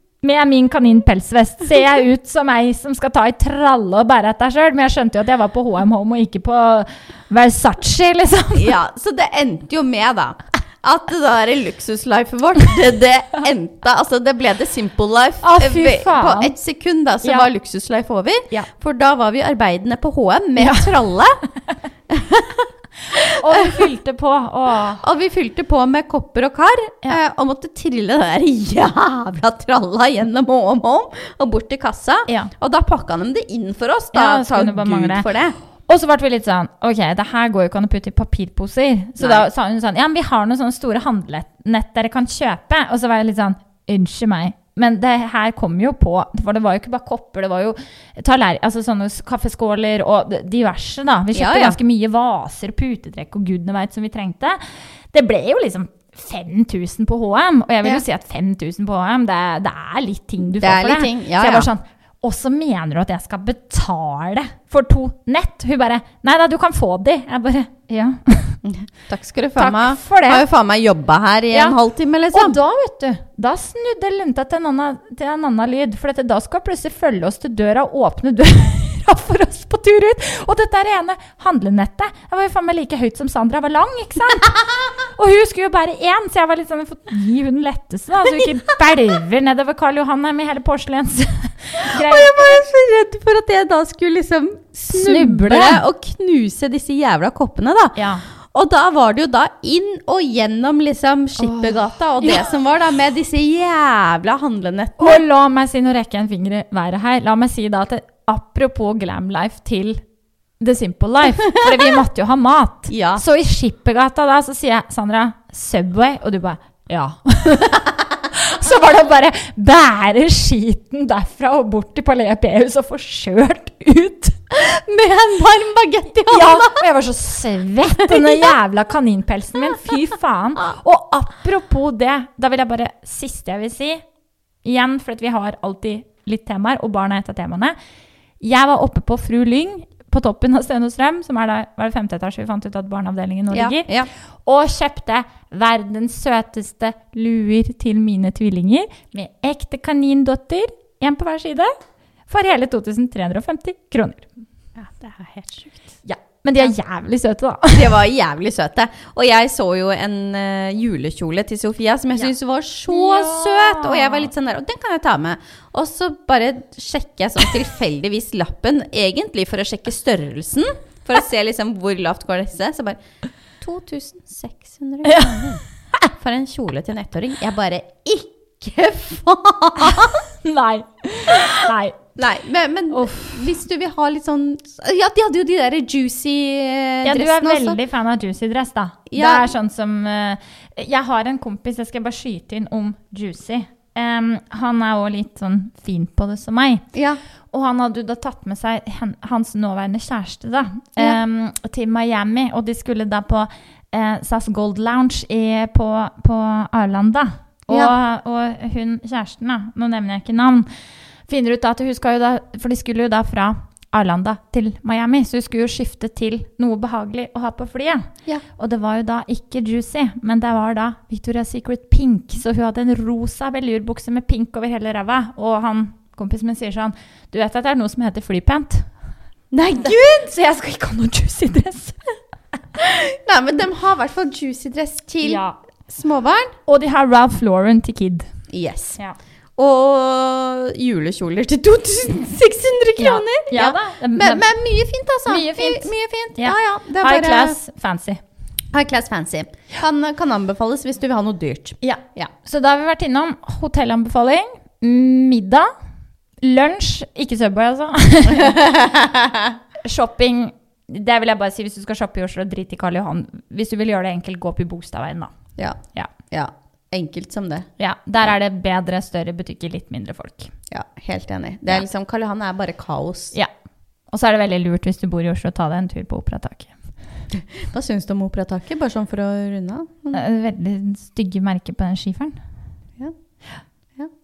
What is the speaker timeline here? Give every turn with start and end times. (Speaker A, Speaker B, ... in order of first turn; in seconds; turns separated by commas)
Speaker A: 0.2-8.8, Speaker B: 8.5-21.4, Speaker A: 15.4-16.5, Speaker A: 20.6-20.9, Speaker B: 22.1-23.9, Speaker A: 23.2-25.0, Speaker B: 25.0-35.6, Speaker A: 34.1-35.3, Speaker A: 35.9-54.6, Speaker B: 39.2-39.5, Speaker B: 51.3-51.8, Speaker A: 55.1-68.6, Speaker B: 60.6-61.7, Speaker B: 68.6-72.6, Speaker A: 69.5-70.5, Speaker A: 72.3-92.6, Speaker B: 91.8-105.2, Speaker A: 94.9-95.8, Speaker A: 98.0-98.2, Speaker A: 101.4-102.5, Speaker A: 105.0-110.0, Speaker A: 110.6-124.4, Speaker B: 112.9-113.2, Speaker B: 124.5-126.8, Speaker A: 126.2-134.0, Speaker B: 128.1-128.4, Speaker A: 134.6-137.8, Speaker A: 138.4-143.9, Speaker B: 143.5-144.1, Speaker A: 144.4-151.7, Speaker A: 152.3-154.3, Speaker B: 154.8-155.8, Speaker A: 156.0-157.9, Speaker B: 157.7-173.0, Speaker A: 162.9-164.3, Speaker B: 173.6-180.2, Speaker A: 175.1-176.0, Speaker A: 179.8-182.0, Speaker B: 181.3-181.6, Speaker B: 182.2-187.8, Speaker A: 182.9-183.5, Speaker A: 187.0-196.8, Speaker B: 189.1-189.5, Speaker B: 196.9-197.2, Speaker A: 197.5-210.7, Speaker A: 211.3-228.9, Speaker B: 229.5-230.3, Speaker A: 229.8-232.2, Speaker B: 232.8-236.6, Speaker A: 235.2-235.6, Speaker A: 236.7-238.3, Speaker B: 238.5-239.0, Speaker B: 239.6-247.6, Speaker A: 243.0-244.5, Speaker A: 245.3-248.2, Speaker B: 248.7-252.3, Speaker A: 251.8-255.7, Speaker A: 256.4-258.6, Speaker B: 258.3-259.5, Speaker A: 259.8-265.4, Speaker B: 265.6-267.7, Speaker A: 267.8-270.5, Speaker B: 270.7-273.4, Speaker A: 274.1-276.7, Speaker B: 277.3-280.2, Speaker A: 280.1-282.4